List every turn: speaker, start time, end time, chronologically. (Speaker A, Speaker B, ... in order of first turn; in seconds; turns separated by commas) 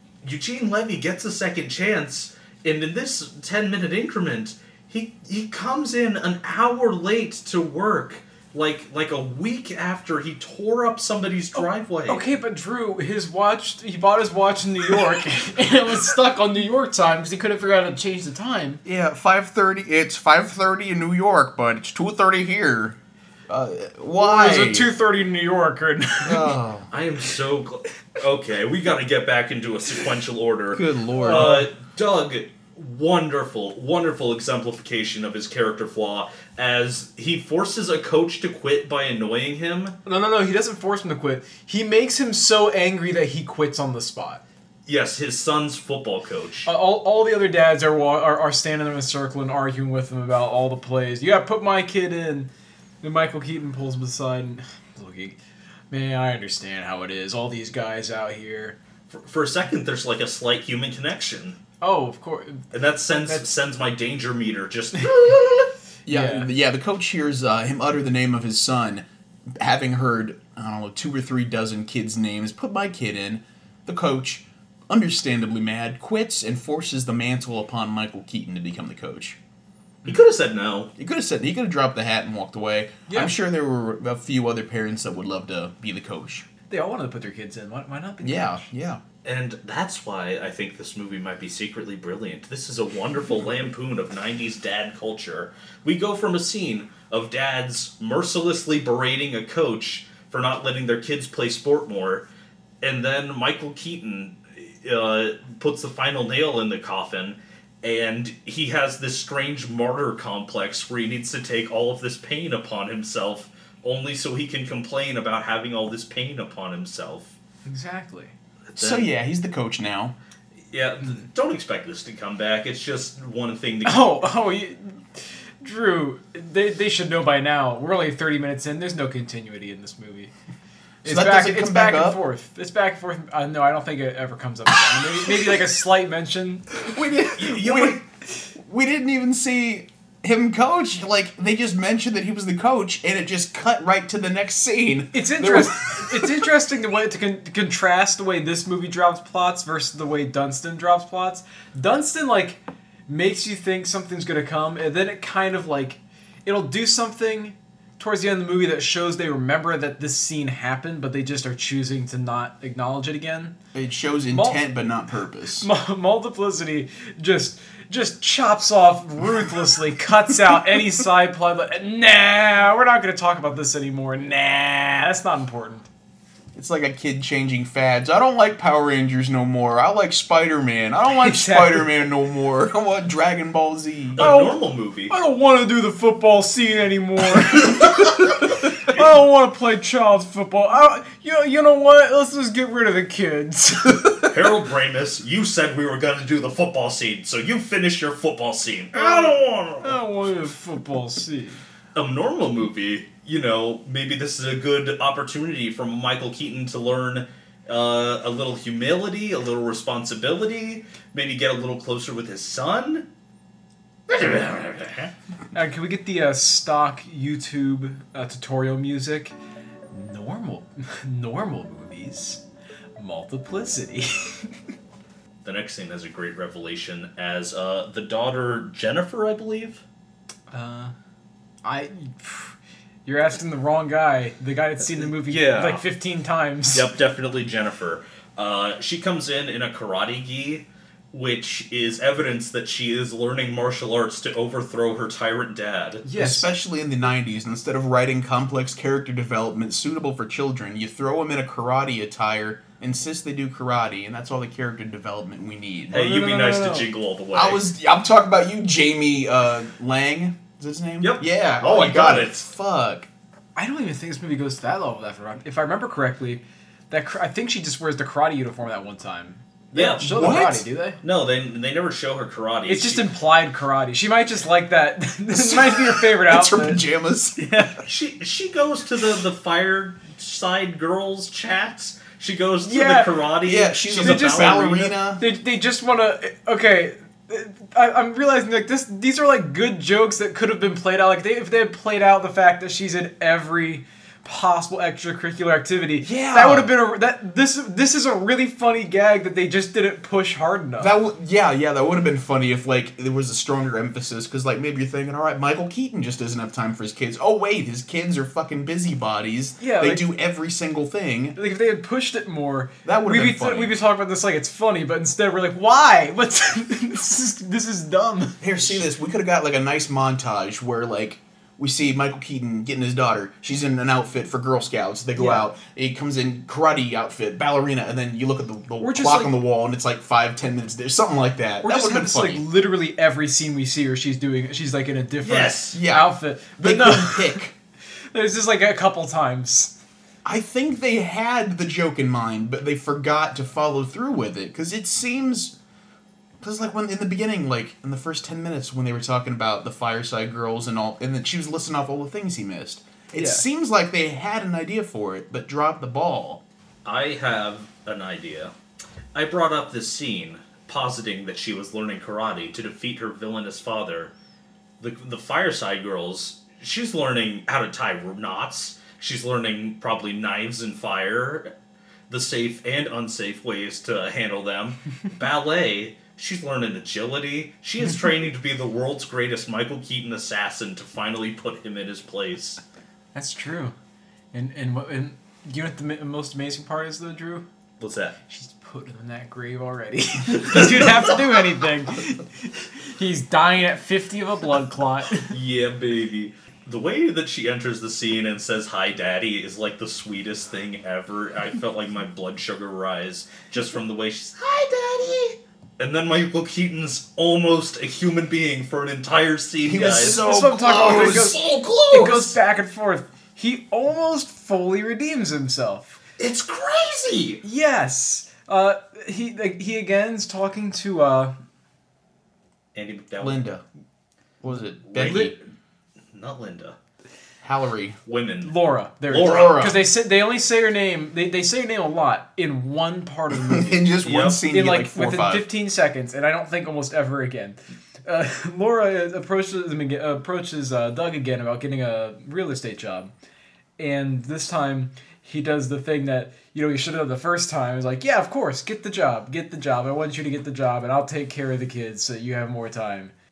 Speaker A: 0.2-12.2, Speaker B: 12.1-18.8, Speaker C: 18.8-24.9, Speaker B: 24.2-26.5, Speaker C: 26.2-26.9, Speaker A: 26.9-40.0, Speaker C: 30.7-31.6, Speaker B: 31.1-31.6, Speaker B: 40.0-44.4, Speaker A: 44.9-46.7, Speaker B: 46.6-52.5, Speaker B: 53.0-55.4, Speaker B: 55.9-58.8, Speaker A: 59.1-61.6, Speaker B: 61.8-62.6, Speaker A: 62.7-65.7, Speaker B: 66.1-66.5, Speaker C: 66.1-79.4, Speaker A: 80.0-80.9, Speaker C: 81.0-86.5, Speaker B: 83.1-83.3, Speaker B: 86.7-88.7, Speaker C: 88.2-89.0, Speaker A: 89.2-102.3, Speaker A: 102.8-117.3, Speaker B: 117.6-118.3, Speaker A: 118.7-119.1, Speaker C: 118.8-120.2, Speaker A: 120.7-124.1, Speaker B: 123.8-130.3, Speaker C: 131.0-132.2, Speaker B: 131.0-136.7, Speaker C: 136.8-138.0, Speaker A: 137.3-138.0, Speaker C: 138.6-146.4, Speaker B: 145.1-163.6, Speaker C: 163.7-165.7, Speaker B: 164.3-164.6, Speaker B: 165.6-175.9, Speaker C: 170.5-170.8, Speaker C: 176.5-184.3, Speaker B: 181.1-182.0, Speaker A: 184.2-185.2, Speaker B: 184.2-184.6, Speaker B: 185.1-194.2, Speaker A: 194.3-200.0, Speaker B: 198.9-201.6, Speaker A: 201.9-213.1, Speaker A: 214.1-215.1, Speaker B: 215.5-219.3, Speaker B: 219.9-222.4, Speaker B: 223.0-224.6, Speaker A: 225.4-229.8, Speaker B: 230.5-230.9, Speaker B: 231.6-232.5, Speaker B: 233.1-236.9, Speaker A: 235.0-235.8, Speaker A: 236.7-246.0, Speaker B: 246.0-246.5, Speaker C: 246.1-256.1, Speaker A: 255.9-257.6, Speaker B: 255.9-256.9, Speaker C: 257.3-263.1, Speaker A: 261.0-262.4, Speaker B: 263.6-271.0, Speaker A: 269.7-270.5, Speaker C: 270.0-270.6, Speaker A: 271.0-273.1, Speaker B: 272.7-276.8, Speaker C: 275.3-277.7, Speaker B: 277.4-277.8, Speaker A: 277.9-284.7, Speaker B: 282.6-283.2, Speaker C: 283.4-285.2, Speaker B: 283.9-300.9, Speaker C: 296.0-296.7, Speaker C: 300.8-311.4, Speaker B: 309.6-310.1, Speaker B: 311.4-318.8, Speaker C: 312.8-313.8, Speaker C: 318.4-332.4, Speaker B: 325.1-325.5, Speaker B: 328.8-329.3, Speaker B: 331.6-337.4, Speaker A: 335.2-335.8, Speaker C: 335.7-337.5, Speaker B: 338.1-339.8, Speaker C: 340.2-345.5, Speaker C: 346.4-356.4, Speaker B: 353.1-353.4, Speaker A: 356.8-358.5, Speaker A: 359.1-364.1, Speaker A: 364.8-371.5, Speaker A: 372.1-382.6, Speaker B: 383.1-383.7, Speaker B: 384.3-387.4, Speaker A: 387.8-388.1, Speaker B: 388.3-395.3, Speaker A: 390.3-391.0, Speaker A: 395.3-412.2, Speaker C: 409.6-412.3, Speaker B: 409.9-416.0, Speaker A: 416.2-417.4, Speaker B: 417.4-421.3, Speaker A: 422.7-423.5, Speaker C: 423.2-423.6, Speaker C: 424.4-425.3, Speaker A: 424.9-425.4, Speaker B: 425.0-425.3, Speaker A: 426.1-426.8, Speaker C: 427.4-428.0, Speaker A: 428.1-428.5, Speaker B: 428.4-443.1, Speaker A: 429.1-429.6, Speaker C: 429.1-429.8, Speaker C: 433.3-435.5, Speaker A: 434.0-434.4, Speaker B: 443.8-453.1